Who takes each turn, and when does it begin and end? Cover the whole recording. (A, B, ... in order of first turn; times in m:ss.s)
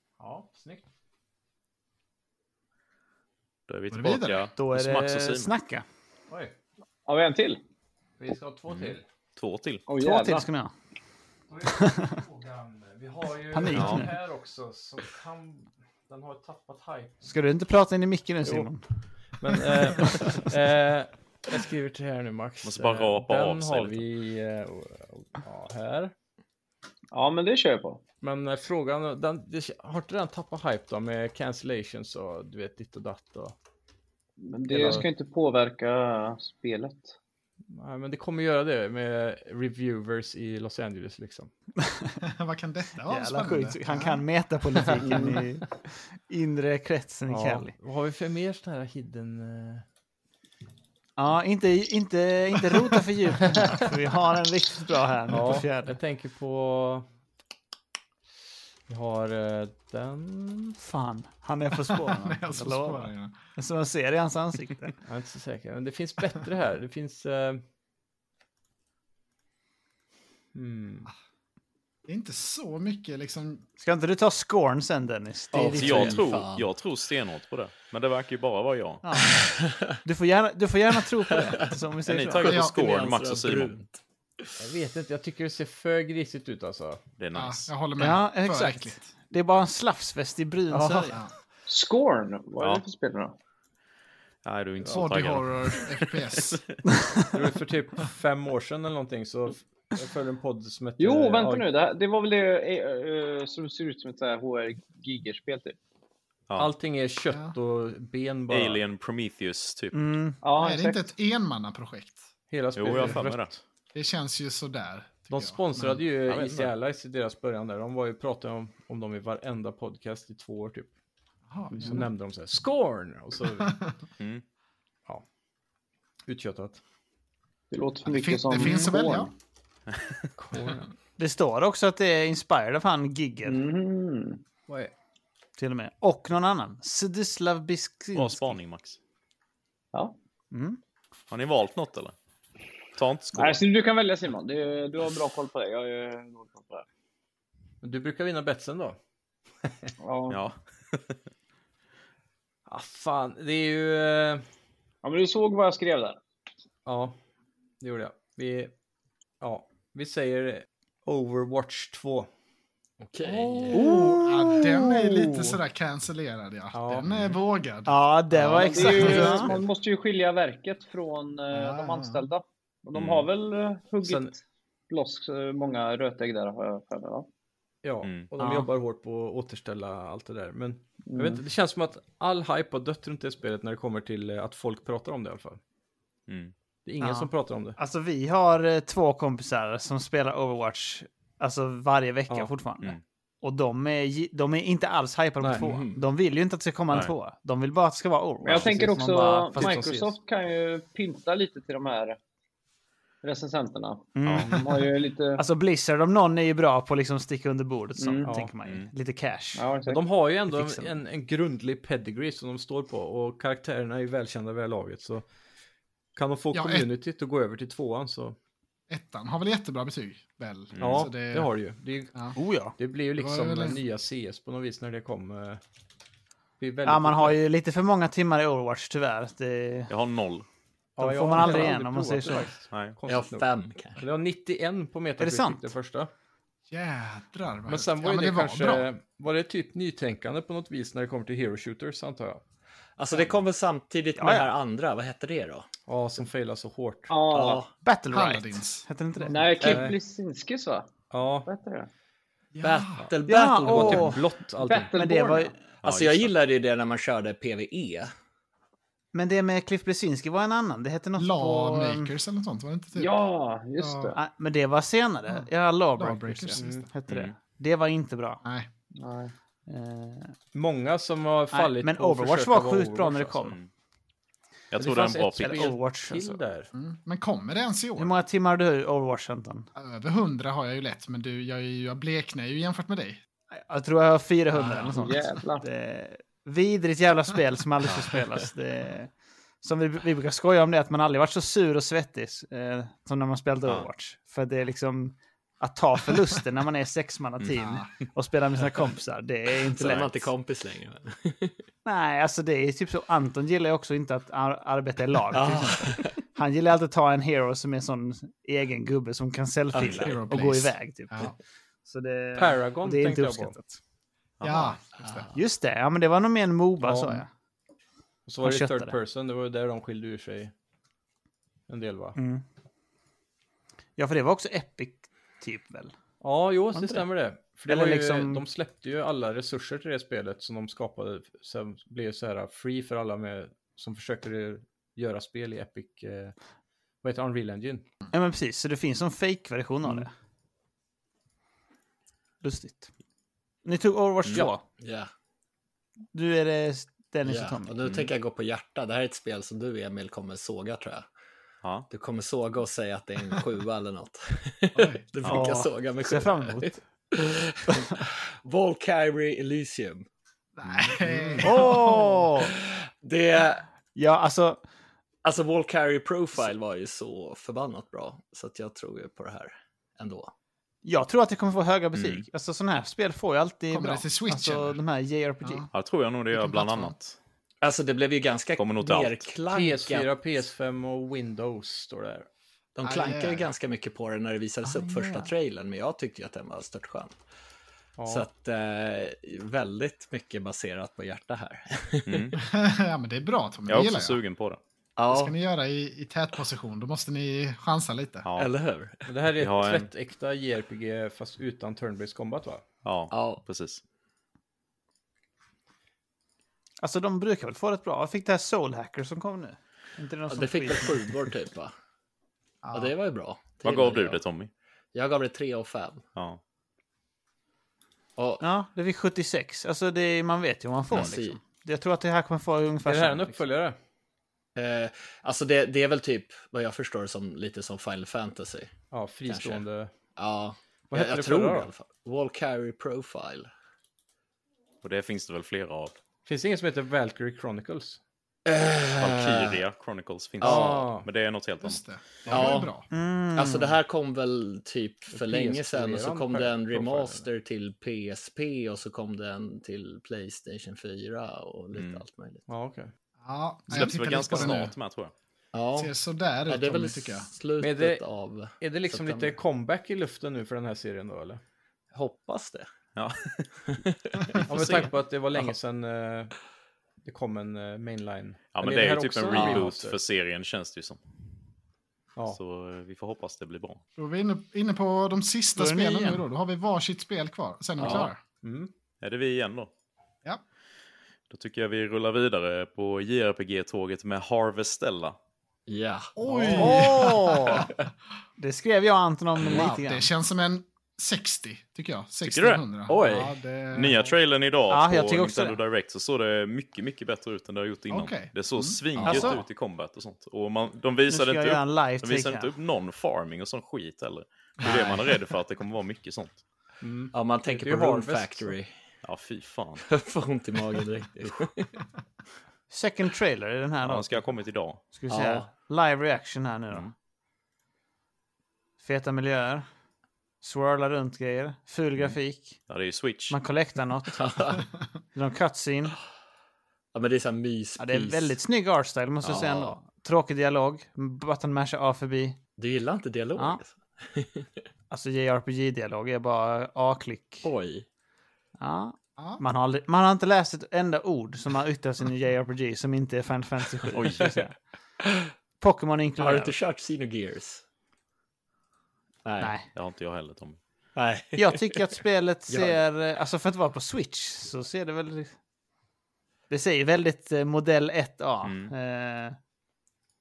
0:00.2-0:00.8 A
0:03.7-0:05.5 B
0:03.9-0:04.5 C
0:04.6-0:05.8 D
0:06.3-0:06.5 A
0:07.1-0:07.6 E
0:08.2-0:09.0 A
0:08.7-0:09.8 B
0:09.9-0:10.4 E
0:10.0-0:10.7 D
0:11.5-0:17.2 A
0:11.7-0:12.2 D
0:13.5-0:14.1 D
0:13.7-0:14.0 B
0:17.2-0:18.8 D
0:18.4-0:18.7 A
0:19.4-0:26.1 A
0:22.6-0:24.0 B
0:27.1-0:28.0 E
0:28.2-0:33.5 A
0:34.4-0:37.1 E
0:34.7-0:35.1 A
0:37.7-0:41.5 A
0:41.8-0:42.2 D
0:42.2-0:44.2 C
0:43.0-0:47.7 D
0:45.0-0:45.4 E
0:47.3-0:49.8 A
0:51.2-0:56.0 D
0:55.3-0:57.0 A
0:58.9-1:00.8 A
1:00.8-1:05.0 D
1:01.9-1:03.3 C
1:05.0-1:07.6 A
1:10.5-1:11.1 A
1:12.1-1:13.6 C
1:13.8-1:16.2 D
1:15.5-1:16.7 F
1:15.5-1:19.0 B
1:19.0-1:22.5 D
1:19.5-1:20.0 F
1:21.3-1:21.7 F
1:22.1-1:23.8 B
1:22.3-1:24.5 F
1:22.4-1:22.8 C
1:24.6-1:27.0 A
1:27.2-1:27.7 B
1:27.3-1:29.1 C
1:28.0-1:31.2 D
1:30.7-1:31.1 A
1:31.7-1:33.3 E
1:34.4-1:36.8 B
1:34.9-1:36.6 C
1:37.3-1:41.6 A
1:41.0-1:45.8 E
1:46.6-1:48.8 A
1:48.5-1:50.0 B
1:49.9-1:50.4 D
1:50.4-1:51.1 E
1:50.6-1:52.3 C
1:52.5-1:53.6 A
1:52.7-1:53.5 B
1:52.8-1:53.2 C
1:53.9-1:56.0 C
1:55.3-2:00.9 A
1:56.3-1:56.7 B
2:01.5-2:02.1 C
2:01.7-2:03.7 A
2:03.6-2:03.9 C
2:06.2-2:06.8 A
2:07.7-2:09.3 E
2:08.0-2:09.3 C
2:08.5-2:08.9 D
2:10.4-2:10.9 A
2:11.2-2:13.6 D
2:13.4-2:14.4 E
2:15.6-2:18.6 D
2:18.1-2:19.0 B
2:20.5-2:20.8 D
2:21.3-2:22.1 B
2:22.9-2:23.6 B
2:23.3-2:26.8 E
2:27.8-2:29.0 A
2:29.6-2:29.9 A
2:30.0-2:30.4 E
2:30.3-2:31.2 B
2:32.6-2:34.4 A
2:35.0-2:36.2 E
2:36.8-2:37.1 A
2:37.8-2:38.7 A
2:39.4-2:42.3 A
2:43.0-2:43.8 F
2:43.2-2:43.9 A
2:43.7-2:45.6 D
2:43.7-2:48.0 C
2:46.7-2:47.1 A
2:47.9-2:49.5 D
2:48.3-2:49.6 A
2:48.5-2:54.4 E
2:51.5-2:52.2 C
2:52.9-2:53.3 B
2:54.0-2:54.3 A
2:54.9-2:57.3 E
2:57.8-3:05.6 A
2:58.0-2:58.3 B
2:58.4-2:58.7 D
3:01.1-3:01.4 E
3:06.3-3:06.5 B
3:06.8-3:07.8 A
3:07.0-3:19.8 D
3:15.6-3:16.0 F
3:18.4-3:22.2 E
3:18.5-3:19.0 A
3:19.5-3:20.1 A
3:23.2-3:25.4 E
3:24.2-3:29.6 D
3:24.2-3:24.5 B
3:28.0-3:28.3 E
3:28.2-3:28.5 A
3:28.6-3:28.9 B
3:29.6-3:30.0 E
3:29.9-3:35.2 A
3:30.5-3:31.0 D
3:36.2-3:38.4 A
3:36.5-3:36.9 C
3:38.9-3:41.5 C
3:40.7-3:41.1 B
3:40.8-3:45.6 A
3:42.3-3:42.7 D
3:43.2-3:43.8 C
3:46.6-3:47.4 A
3:46.8-3:49.9 D
3:49.9-3:50.4 B
3:51.0-3:56.1 A
3:51.0-3:52.5 D
3:52.7-3:53.0 B
3:53.1-3:54.0 F
3:55.2-3:55.7 D
3:56.7-3:58.9 C
3:57.7-4:02.4 A
4:03.0-4:05.7 F
4:04.2-4:04.5 D
4:05.9-4:07.1 A
4:07.1-4:07.6 E
4:07.3-4:07.7 F
4:07.8-4:09.6 D
4:08.1-4:09.3 C
4:09.3-4:10.9 E
4:09.6-4:10.0 A
4:11.1-4:11.5 A
4:11.4-4:11.9 E
4:12.5-4:13.0 C
4:12.6-4:14.2 F
4:13.0-4:14.9 A
4:13.2-4:14.2 D
4:14.6-4:15.5 E
4:14.9-4:15.5 D
4:15.8-4:18.1 F
4:15.8-4:16.3 B
4:19.1-4:22.1 D
4:21.2-4:23.1 C
4:23.0-4:24.2 E
4:23.8-4:24.1 C
4:24.1-4:28.4 D
4:25.3-4:26.9 C
4:26.6-4:26.9 A
4:27.1-4:27.3 B
4:28.4-4:28.7 C
4:28.9-4:29.3 E
4:29.7-4:30.3 D
4:30.5-4:33.5 A
4:31.5-4:33.6 D
4:34.7-4:35.7 B
4:34.8-4:36.7 A
4:35.4-4:36.4 D
4:36.7-4:38.2 C
4:38.0-4:39.7 D
4:39.8-4:43.2 C
4:43.5-5:00.3 D
4:44.5-4:44.9 C
4:44.9-4:45.6 E
4:57.6-4:57.9 C
4:59.8-5:01.6 F
5:01.8-5:11.3 D
5:05.3-5:06.1 F
5:09.8-5:10.1 F
5:09.8-5:11.3 C
5:11.8-5:13.8 D
5:12.4-5:13.6 A
5:14.4-5:14.8 B
5:14.4-5:15.3 C
5:15.0-5:15.3 F
5:15.3-5:17.3 D
5:16.8-5:17.2 A
5:18.2-5:20.5 A
5:18.4-5:19.0 D
5:21.7-5:22.2 A
5:22.2-5:22.4 D
5:24.0-5:25.9 D
5:26.2-5:36.3 A
5:26.7-5:27.0 D
5:27.7-5:28.4 D
5:37.0-5:37.8 A
5:38.1-5:40.1 D
5:42.4-5:42.9 D
5:43.6-5:44.6 D
5:44.3-5:45.1 F
5:46.1-5:47.8 D
5:47.2-5:51.0 F
5:51.6-5:51.9 B
5:51.9-6:00.0 F
5:54.7-5:55.0 C
5:55.2-5:56.8 D
5:57.7-5:58.0 D
6:00.6-6:01.8 C
6:00.7-6:01.6 F
6:01.4-6:02.5 D
6:02.4-6:03.6 F
6:04.0-6:04.6 D
6:05.2-6:10.3 F
6:10.8-6:15.7 D
6:11.9-6:12.2 B
6:13.7-6:14.8 C
6:15.7-6:17.2 B
6:16.3-6:16.9 C
6:17.6-6:20.1 F
6:18.6-6:19.2 B
6:19.5-6:22.3 A
6:22.8-6:27.2 F
6:22.8-6:23.5 C
6:24.6-6:25.3 C
6:28.0-6:28.3 A
6:28.0-6:32.4 F
6:32.0-6:32.4 B
6:32.4-6:34.2 C
6:33.7-6:34.6 B
6:35.0-6:35.3 F
6:35.1-6:38.3 C
6:38.2-6:38.5 B
6:38.4-6:39.1 F
6:39.0-6:42.6 A
6:39.4-6:39.9 B
6:42.8-6:43.8 B
6:43.1-6:43.4 F
6:46.8-6:51.1 D
6:50.3-6:51.7 F
6:52.6-6:52.9 C
6:52.7-6:54.2 F
6:53.6-6:54.5 B
6:54.9-6:56.0 F
6:58.2-6:58.4 F
6:58.4-7:03.4 D
7:00.9-7:01.4 F
7:02.8-7:03.8 A
7:04.6-7:08.7 F
7:08.9-7:09.9 A
7:09.3-7:09.6 F
7:10.2-7:13.5 F
7:10.9-7:11.7 A
7:14.8-7:16.0 B
7:16.2-7:18.0 A
7:18.4-7:19.6 F
7:19.0-7:21.8 B
7:20.4-7:20.8 F
7:20.4-7:21.1 A
7:21.6-7:22.8 C
7:22.3-7:22.7 F
7:22.9-7:23.7 D
7:23.3-7:32.4 F
7:25.1-7:27.3 A
7:31.7-7:32.0 B
7:32.5-7:32.9 A
7:33.2-7:34.7 C
7:33.7-7:35.1 B
7:35.5-7:35.9 F
7:35.8-7:37.3 C
7:36.5-7:39.3 F
7:37.6-7:38.0 A
7:38.6-7:41.4 A
7:41.9-7:42.7 F
7:43.0-7:44.9 B
7:43.7-7:44.4 F
7:44.5-7:46.3 A
7:47.0-7:50.0 A
7:48.5-7:51.0 B
7:49.3-7:49.6 F
7:52.3-7:53.8 B
7:54.0-7:58.2 C
7:55.6-7:56.2 D
7:57.8-7:58.1 F
7:57.8-7:58.1 B
7:57.8-7:58.7 A
7:59.0-7:59.7 B
8:01.3-8:05.2 B
8:05.7-8:06.7 F
8:06.2-8:07.7 C
8:06.3-8:06.9 A
8:06.6-8:07.7 D
8:08.4-8:10.1 D
8:09.4-8:14.1 C
8:12.2-8:12.6 B
8:12.9-8:13.3 A
8:12.9-8:13.2 F
8:13.7-8:26.4 B
8:14.7-8:15.6 D
8:17.9-8:19.4 C
8:19.0-8:19.4 D
8:21.1-8:22.5 D
8:24.6-8:24.9 C
8:26.8-8:28.5 A
8:27.1-8:28.7 F
8:29.0-8:29.8 B
8:29.8-8:31.7 F
8:32.7-8:34.3 D
8:33.8-8:34.8 B
8:34.9-8:36.9 D
8:35.1-8:35.5 F
8:38.8-8:39.6 D
8:40.4-8:42.6 D
8:42.7-8:43.4 B
8:43.3-8:44.6 D
8:44.2-8:44.6 F
8:45.1-8:46.0 D
8:46.9-8:48.3 F
8:47.8-8:52.4 D
8:49.2-8:49.8 F
8:52.6-8:54.5 F
8:54.9-8:57.5 D
8:57.4-8:57.8 F
8:58.6-9:04.5 D
8:59.2-8:59.4 C
9:03.9-9:04.4 B
9:05.0-9:05.3 F
9:05.6-9:06.5 D
9:06.2-9:07.6 F
9:09.2-9:09.5 F
9:09.4-9:09.7 D
9:09.7-9:10.6 B
9:10.9-9:11.8 F
9:11.4-9:15.3 D
9:12.5-9:12.8 F
9:16.5-9:19.4 D
9:18.4-9:18.7 B